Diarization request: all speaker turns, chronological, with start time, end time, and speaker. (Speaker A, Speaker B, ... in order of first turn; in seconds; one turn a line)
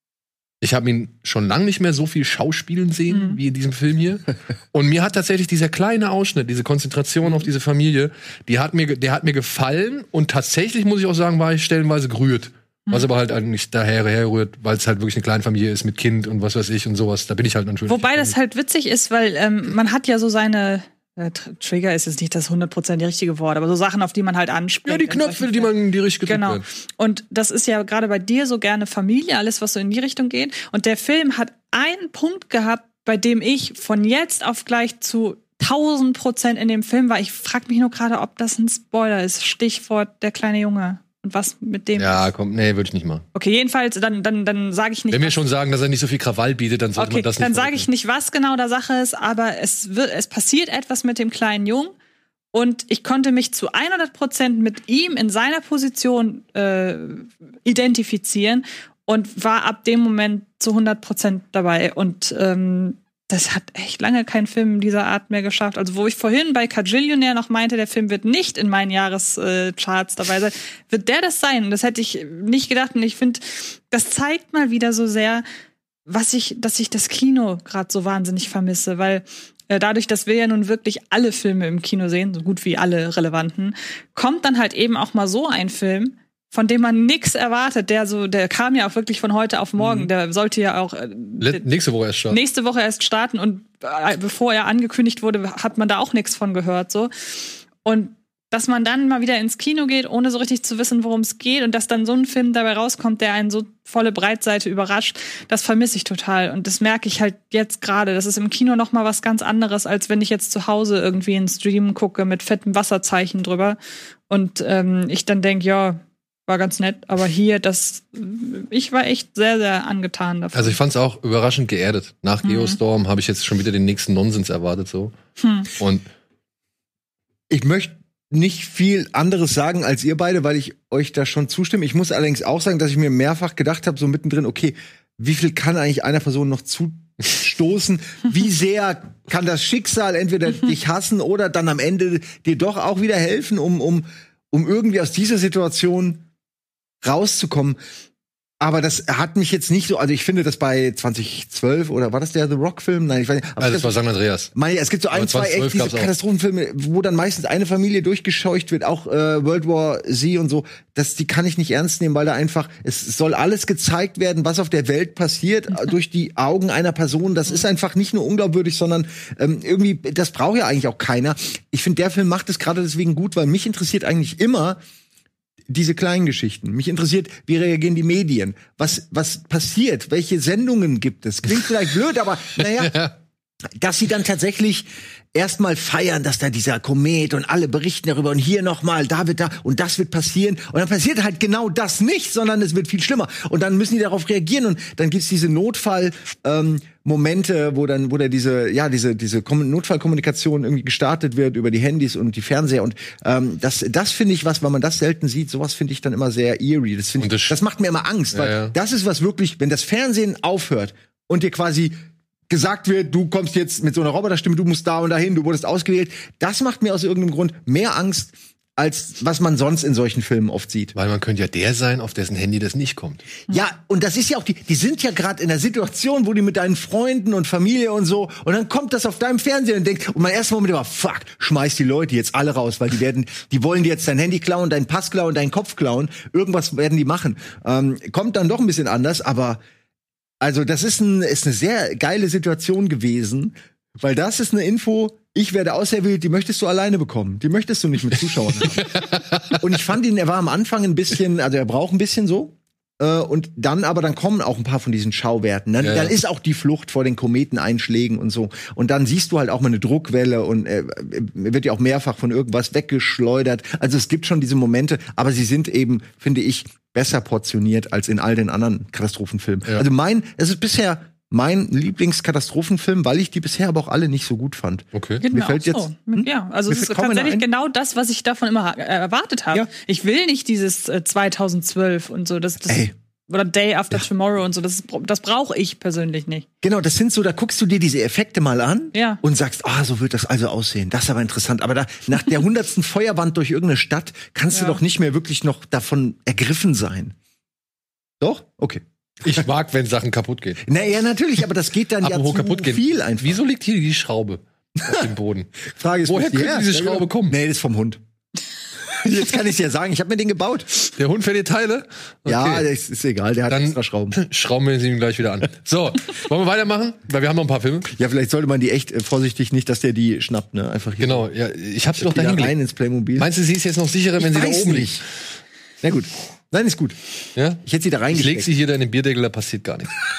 Speaker A: 0.6-18.3
Speaker B: 3.1-3.4
Speaker B: 17.9-25.7
Speaker A: 24.9-26.6
Speaker B: 26.2-42.3
Speaker A: 42.0-43.2
Speaker B: 43.3-45.4
Speaker A: 45.1-47.9
Speaker B: 47.0-51.9
Speaker B: 52.5-75.4
Speaker B: 76.1-91.7
Speaker A: 89.8-90.1
Speaker A: 91.4-92.4
Speaker B: 92.3-113.8
Speaker B: 114.3-120.8
Speaker A: 120.5-125.1
Speaker B: 122.4-122.8
Speaker B: 125.4-125.7
Speaker A: 125.8-126.0
Speaker C: 127.5-146.2
Speaker C: 147.0-147.8
Speaker C: 148.6-153.9
Speaker A: 153.6-154.5
Speaker C: 154.5-174.8
Speaker A: 155.1-156.1
Speaker C: 175.7-183.0
Speaker A: 182.6-183.1
Speaker C: 183.8-211.9
Speaker A: 207.2-207.6
Speaker A: 208.3-208.7
Speaker C: 212.5-220.9
Speaker A: 220.9-223.2
Speaker C: 223.5-239.6
Speaker C: 240.4-277.5
Speaker A: 248.8-249.6
Speaker A: 255.8-256.1
Speaker A: 274.9-275.2
Speaker B: 275.2-286.4
Speaker C: 286.6-297.1
Speaker B: 288.9-289.2
Speaker B: 294.5-294.8
Speaker C: 298.2-299.4
Speaker A: 299.2-300.6
Speaker C: 300.6-303.4
Speaker A: 302.0-307.4
Speaker C: 305.7-308.0
Speaker C: 308.9-310.7
Speaker A: 311.0-312.6
Speaker C: 312.2-314.2
Speaker A: 313.5-317.9
Speaker C: 317.9-321.2
Speaker A: 321.0-322.5
Speaker C: 321.9-323.3
Speaker A: 323.1-324.9
Speaker C: 324.2-325.0
Speaker C: 325.8-327.0
Speaker C: 327.6-328.5
Speaker A: 328.1-330.0